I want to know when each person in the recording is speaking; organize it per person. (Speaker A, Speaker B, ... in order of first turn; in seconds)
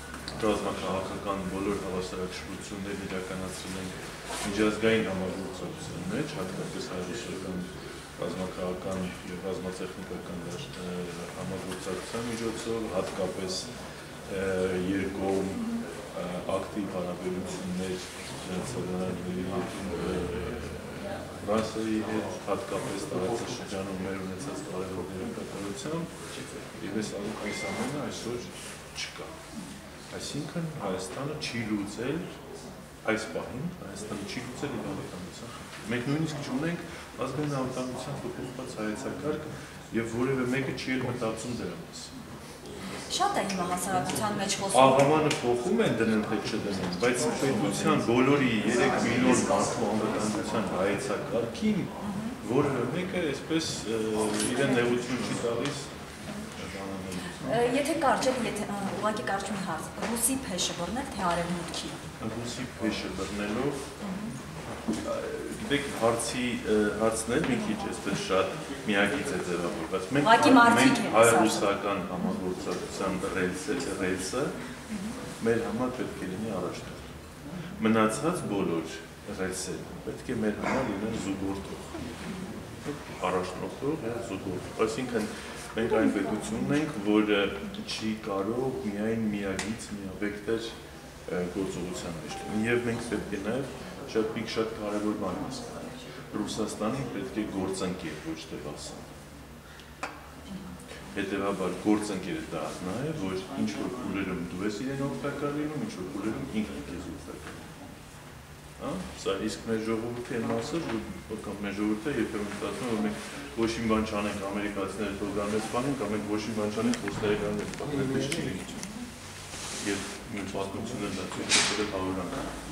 Speaker A: 0.3-13.7, 14.2-26.1, 26.7-29.3, 30.1-32.3, 33.0-42.1, 44.7-55.9, 56.5-57.5, 62.2-63.8, 65.0-74.5, 75.4-77.1, 77.8-82.0, 82.8-90.7, 91.2-99.0, 101.1-107.7, 108.8-118.8, 119.8-122.5
Speaker B: 43.1-45.1, 52.0-52.4, 57.4-62.0, 64.0-64.3, 70.2-71.7, 74.9-75.2